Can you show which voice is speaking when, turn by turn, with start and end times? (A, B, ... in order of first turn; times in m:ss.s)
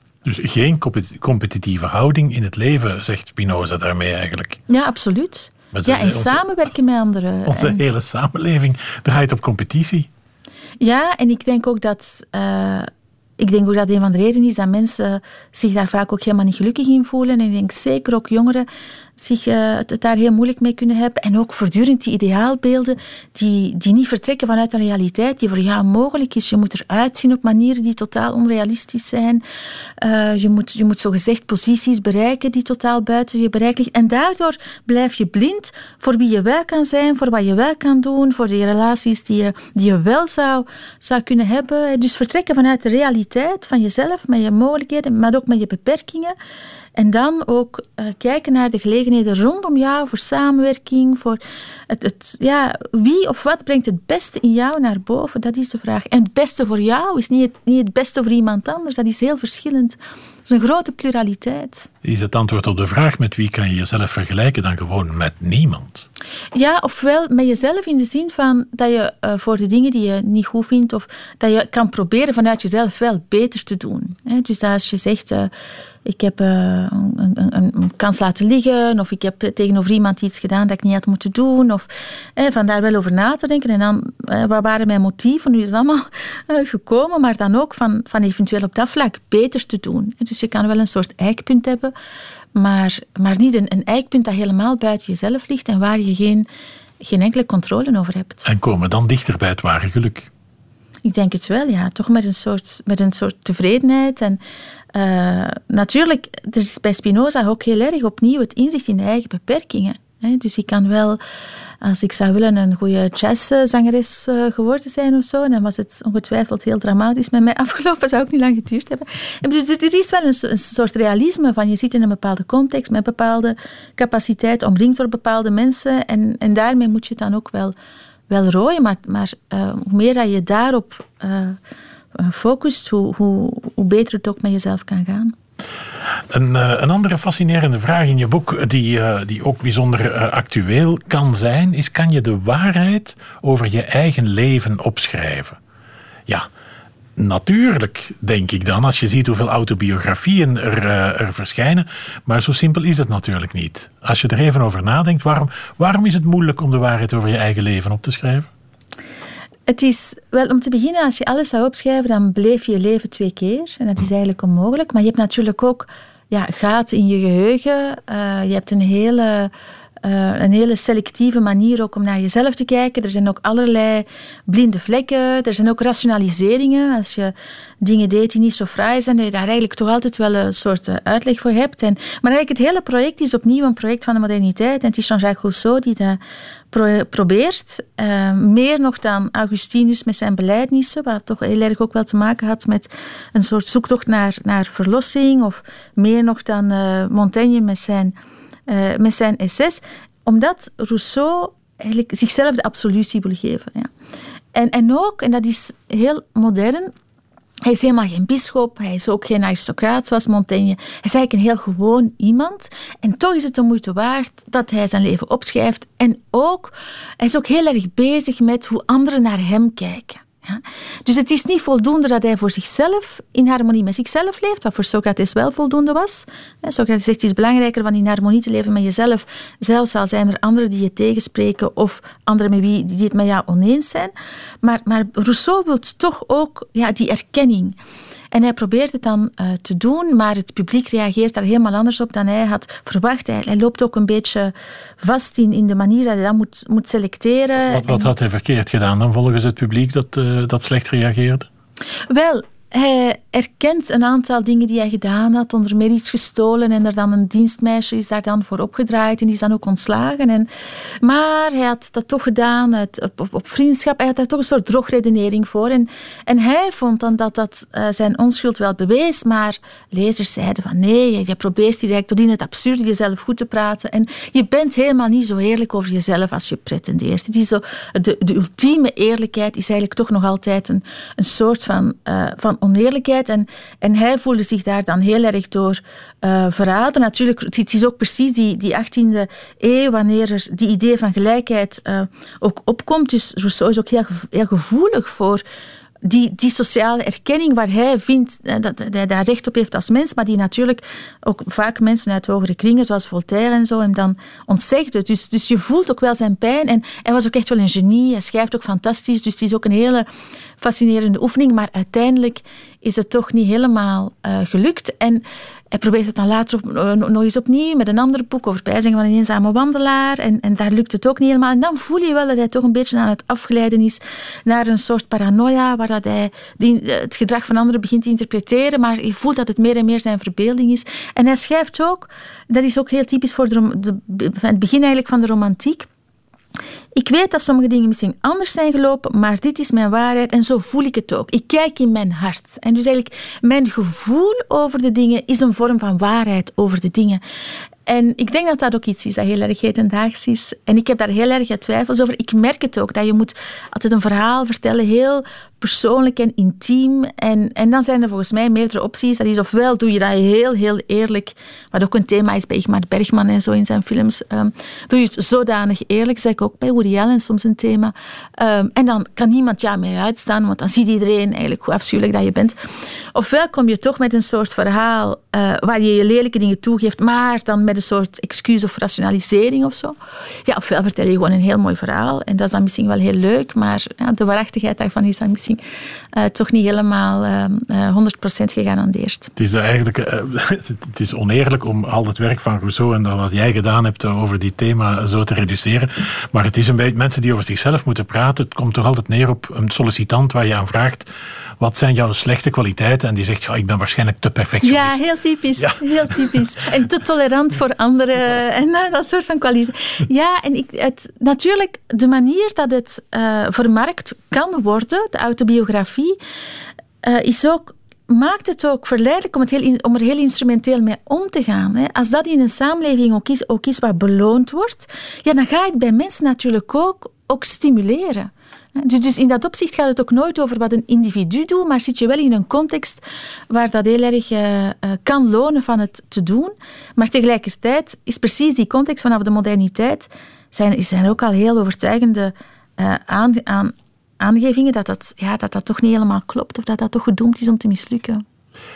0:00.2-0:04.6 A
0:04.7-0:07.8 B
0:05.7-0:06.4 A
0:07.5-0:10.1 A
0:10.8-0:29.4 B
0:30.0-0:46.3 B
0:47.0-1:01.9 B
1:02.0-1:06.0 A
1:06.5-1:15.5 B
1:16.0-1:31.9 B
1:32.5-1:36.5 B
1:37.0-1:38.4 B
1:38.4-1:40.3 A
1:41.0-1:44.4 B
1:44.9-1:51.2 B
1:51.8-2:07.7 B
2:08.3-2:11.6 B
2:12.2-2:15.3 B
2:16.3-2:25.6 A
2:27.2-2:38.5 A
2:39.7-3:06.2 B
3:06.7-3:18.2 B
3:18.7-3:23.9 B
3:24.5-3:26.9 B
3:27.6-3:57.8 B
3:58.3-4:08.1 B
4:07.6-4:11.5 A
4:12.1-4:20.5 B
4:21.0-4:55.4 B
4:56.0-5:10.1 B
5:10.6-5:35.9 B
5:37.0-5:47.2 B
5:47.9-6:12.6 B
6:13.1-6:25.6 B
6:26.1-6:29.3 B
6:29.4-6:41.1 A
6:41.6-6:45.0 A
6:44.6-6:56.2 B
6:45.6-6:46.2 A
6:57.0-7:28.2 B